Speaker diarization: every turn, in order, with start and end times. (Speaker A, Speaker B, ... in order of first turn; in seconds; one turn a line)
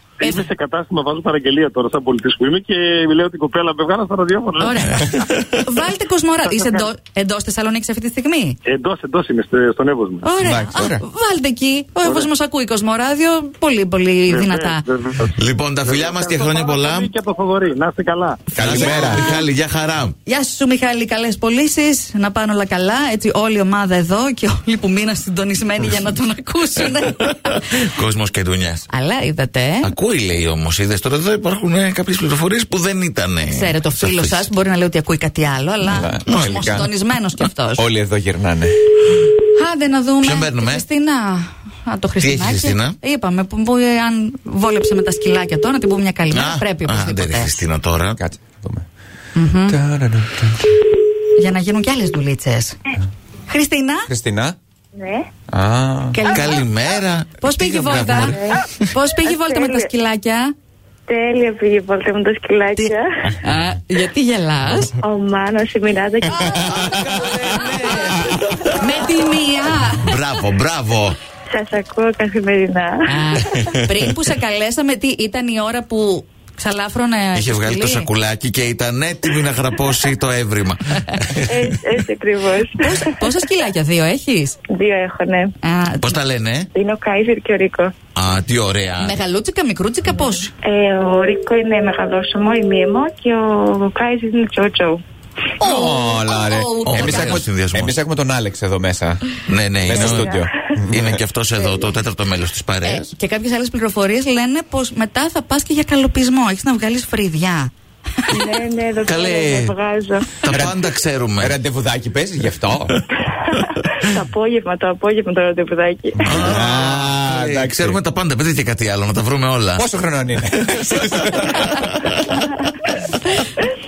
Speaker A: 0.2-5.3
Speaker B: 4.6-8.6
Speaker A: 6.4-6.9
Speaker A: 8.6-10.2
Speaker B: 10.2-14.8
Speaker C: 10.4-11.0
Speaker A: 12.0-12.3
Speaker A: 14.3-18.5
Speaker D: 15.3-17.1
Speaker C: 18.5-19.3
Speaker D: 18.6-20.1
Speaker B: 18.6-19.4
Speaker B: 20.2-27.6
Speaker D: 27.4-28.9
Speaker B: 28.9-29.9
Speaker D: 29.8-34.5
Speaker B: 33.5-37.9
Speaker C: 35.9-36.9
Speaker D: 36.3-36.7
Speaker C: 37.8-38.7
Speaker B: 39.5-47.5
Speaker D: 40.2-40.8
Speaker D: 42.2-43.0
Speaker D: 46.3-48.2
Speaker C: 48.2-48.9
Speaker B: 49.3-49.8
Speaker C: 49.7-50.6
Speaker B: 51.4-52.8
Speaker B: 53.5-54.1
Speaker C: 54.1-54.5
Speaker E: 55.0-55.3
Speaker C: 55.5-56.2
Speaker B: 56.1-56.6
Speaker D: 56.2-58.9
Speaker B: 57.4-60.5
Speaker E: 58.1-58.6
Speaker E: 59.2-59.9
Speaker E: 61.1-63.4
Speaker B: 62.8-64.9
Speaker E: 65.0-66.8
Speaker C: 66.4-68.5
Speaker B: 66.4-70.2
Speaker D: 66.5-68.8
Speaker D: 70.0-71.2
Speaker E: 71.5-73.8
Speaker B: 73.1-78.1
Speaker D: 77.3-81.8
Speaker E: 81.4-83.2
Speaker B: 82.8-84.6
Speaker E: 84.7-85.5
Speaker B: 85.6-86.2
Speaker D: 86.0-86.7
Speaker E: 86.7-87.9
Speaker D: 88.1-89.2
Speaker B: 89.0-90.5
Speaker E: 90.6-95.0
Speaker B: 95.6-97.4
Speaker C: 95.6-99.3
Speaker D: 96.8-97.9
Speaker D: 99.5-100.3
Speaker C: 99.8-101.2
Speaker E: 99.9-100.7
Speaker D: 100.9-103.1
Speaker B: 102.8-107.7
Speaker E: 108.3-110.4
Speaker D: 109.0-109.7
Speaker D: 110.4-111.5
Speaker C: 110.5-110.8
Speaker C: 111.4-113.0
Speaker E: 113.2-116.6
Speaker D: 116.2-119.8
Speaker C: 116.2-118.0
Speaker C: 119.8-121.8
Speaker D: 120.6-122.5